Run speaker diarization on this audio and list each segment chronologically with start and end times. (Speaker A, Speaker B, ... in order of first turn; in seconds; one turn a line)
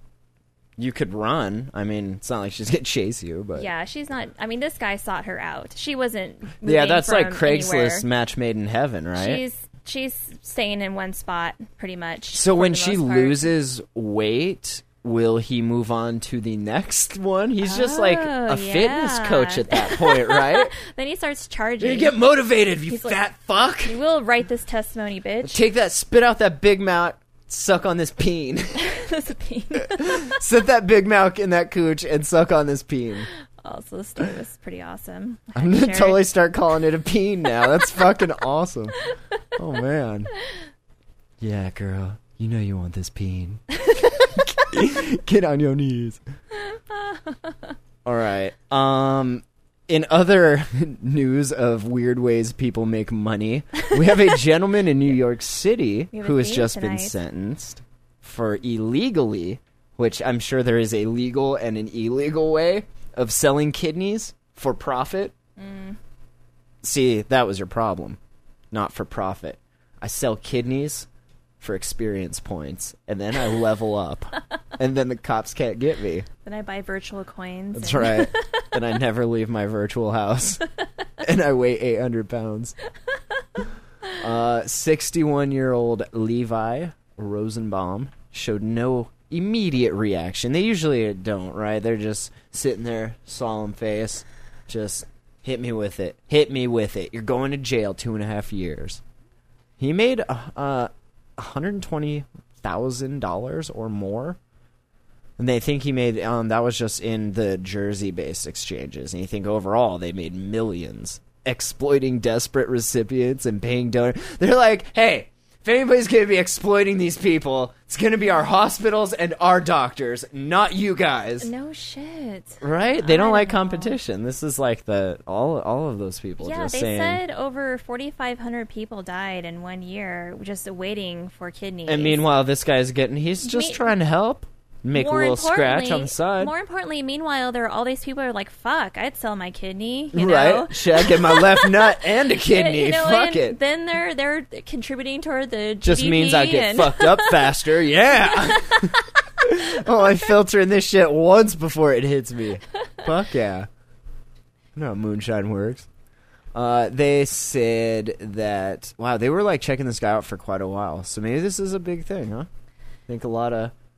Speaker A: 0.8-3.7
Speaker B: 3.5-8.1
Speaker A: 6.6-9.4
Speaker B: 9.2-13.5
Speaker A: 12.3-20.7
Speaker B: 17.6-22.1
Speaker A: 21.8-23.9
Speaker B: 22.9-23.2
Speaker B: 23.8-25.6
Speaker A: 25.4-28.8
Speaker B: 28.8-30.2
Speaker A: 29.8-33.3
Speaker B: 33.6-36.2
Speaker A: 35.5-39.0
Speaker A: 39.6-40.3
Speaker A: 41.4-46.2
Speaker B: 46.7-47.7
Speaker A: 48.0-65.3
Speaker B: 56.1-57.2
Speaker B: 65.6-66.0
Speaker A: 66.8-68.2
Speaker A: 68.7-71.1
Speaker A: 71.6-76.3
Speaker B: 76.5-78.7
Speaker A: 77.7-80.6
Speaker A: 81.2-82.7
Speaker A: 84.2-99.0
Speaker A: 99.8-104.4
Speaker A: 105.4-121.5
Speaker B: 121.4-124.0
Speaker A: 122.6-127.2
Speaker B: 126.4-132.2
Speaker A: 131.9-136.5
Speaker B: 133.4-133.9
Speaker B: 134.9-147.5
Speaker A: 140.1-143.6
Speaker A: 145.8-153.7
Speaker B: 148.3-149.1
Speaker A: 154.8-155.9
Speaker A: 156.6-162.5
Speaker A: 163.1-163.7